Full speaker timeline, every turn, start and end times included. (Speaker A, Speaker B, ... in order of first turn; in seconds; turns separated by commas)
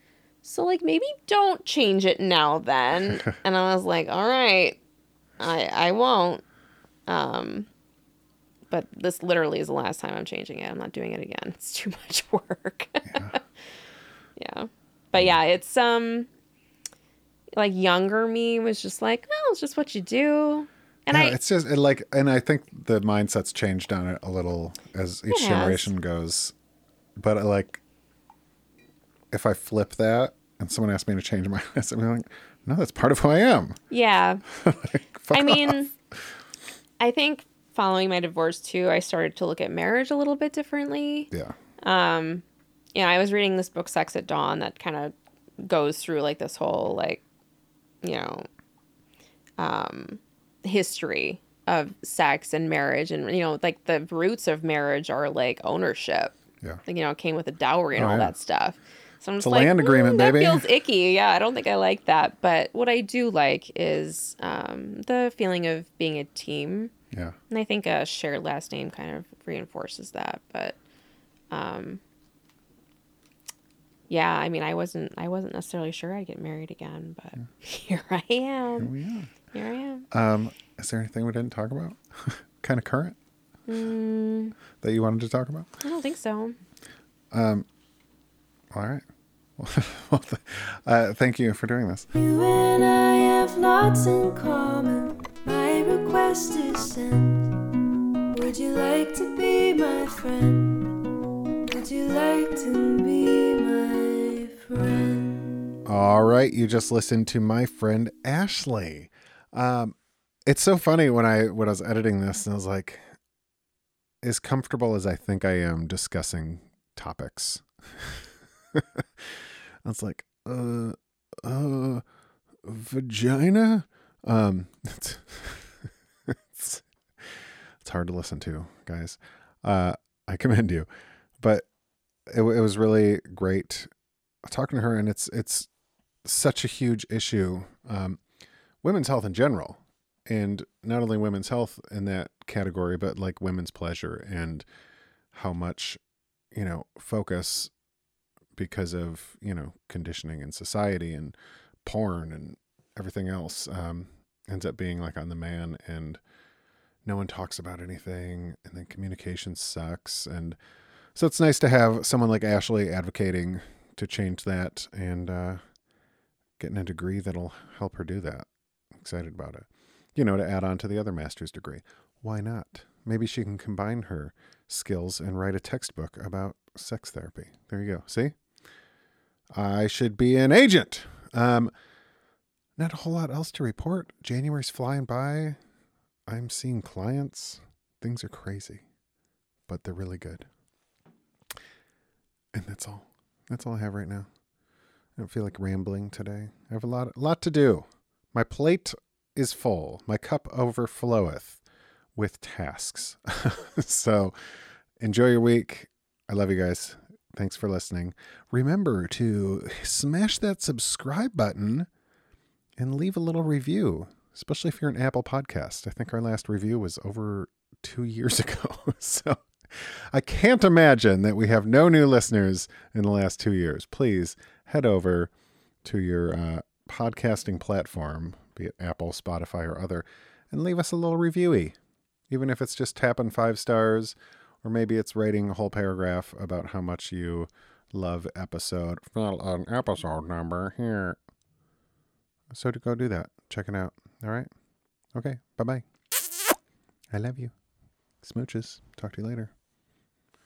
Speaker A: 0.4-4.8, Speaker A: 5.4-6.4, Speaker A: 7.1-7.7, Speaker A: 8.7-13.4, Speaker A: 14.4-16.3, Speaker A: 17.5-21.4, Speaker B: 21.1-26.5, Speaker A: 25.3-25.9, Speaker B: 27.2-27.8, Speaker B: 29.3-33.8, Speaker A: 33.9-34.4, Speaker B: 34.5-35.9, Speaker A: 35.3-35.9, Speaker A: 37.0-42.4, Speaker A: 42.9-47.2, Speaker A: 48.0-48.5, Speaker A: 49.6-56.3, Speaker A: 56.9-66.9, Speaker B: 58.0-58.3, Speaker B: 59.4-60.6, Speaker A: 67.5-70.8, Speaker A: 71.5-72.0, Speaker A: 74.1-78.9, Speaker B: 78.8-79.3, Speaker A: 79.5-80.1, Speaker B: 80.1-83.2, Speaker A: 83.7-84.5, Speaker B: 84.8-85.8, Speaker A: 85.8-86.5, Speaker B: 87.3-87.7, Speaker B: 88.7-89.0, Speaker B: 89.6-92.1, Speaker C: 92.1-97.8, Speaker C: 98.3-101.1, Speaker C: 101.7-105.7, Speaker B: 105.8-109.9, Speaker B: 110.5-113.0, Speaker B: 114.2-122.0, Speaker B: 122.6-130.9, Speaker B: 131.4-131.7, Speaker B: 132.3-133.9, Speaker B: 134.4-135.7, Speaker B: 136.2-138.2, Speaker B: 138.8-144.7, Speaker B: 145.3-146.0, Speaker B: 146.5-147.7, Speaker B: 148.6-156.2, Speaker B: 157.0-160.6, Speaker B: 161.1-165.6, Speaker B: 166.6-178.3, Speaker B: 179.5-181.7, Speaker B: 182.8-185.6, Speaker B: 186.3-188.8, Speaker B: 189.7-190.5, Speaker B: 192.5-194.3, Speaker B: 195.2-201.6, Speaker B: 202.2-204.3, Speaker B: 205.0-211.9, Speaker B: 212.8-225.3, Speaker B: 225.8-231.7, Speaker B: 232.3-241.2, Speaker B: 242.5-244.5, Speaker B: 245.1-245.8, Speaker B: 247.1-247.5, Speaker B: 248.2-249.5